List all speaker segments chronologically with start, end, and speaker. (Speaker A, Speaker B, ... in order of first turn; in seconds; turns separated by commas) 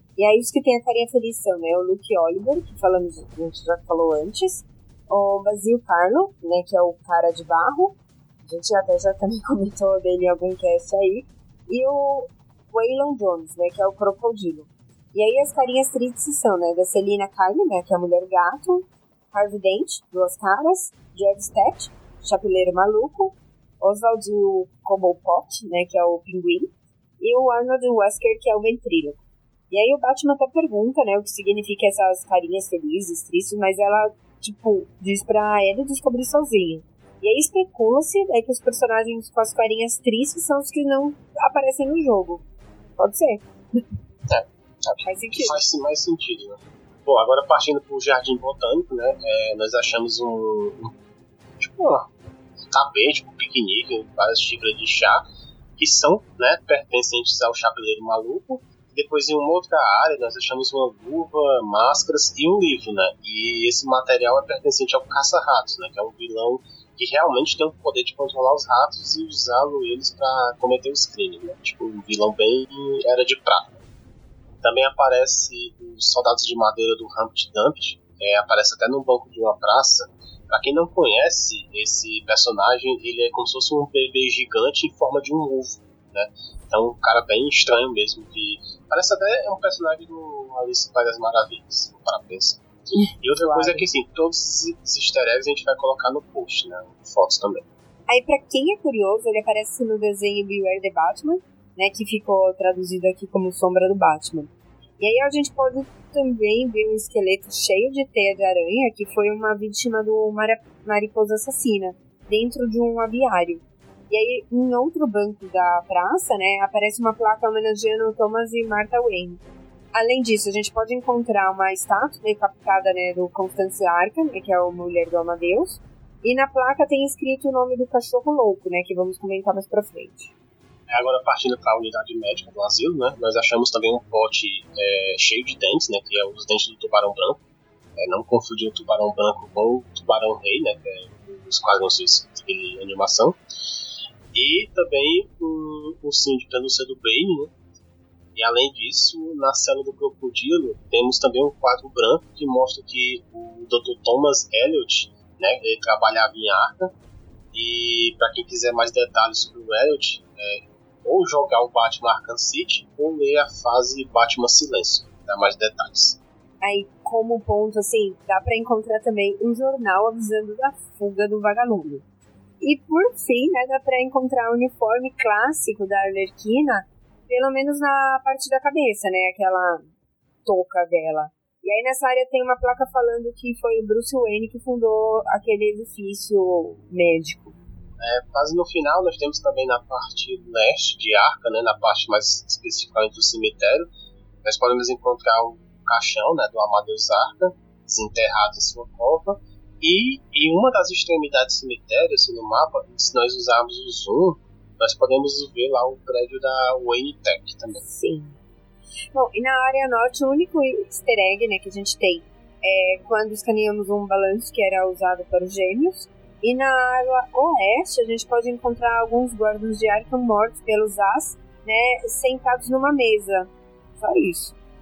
Speaker A: 0.2-42.4, Speaker A: 43.0-43.9, Speaker B: 44.3-51.0, Speaker A: 45.0-45.6, Speaker B: 51.6-52.1, Speaker B: 52.7-55.2, Speaker B: 55.8-73.8, Speaker B: 74.6-92.6, Speaker A: 93.0-93.9, Speaker B: 93.2-97.7, Speaker A: 98.1-119.4, Speaker A: 119.9-130.3, Speaker B: 130.9-137.4, Speaker B: 138.0-143.4, Speaker B: 144.3-147.5, Speaker B: 148.4-156.9, Speaker B: 157.5-166.2, Speaker A: 166.6-172.0, Speaker A: 172.6-179.9, Speaker A: 180.5-187.6, Speaker B: 188.0-193.9, Speaker B: 194.4-207.8, Speaker A: 207.7-208.4, Speaker A: 209.1-224.6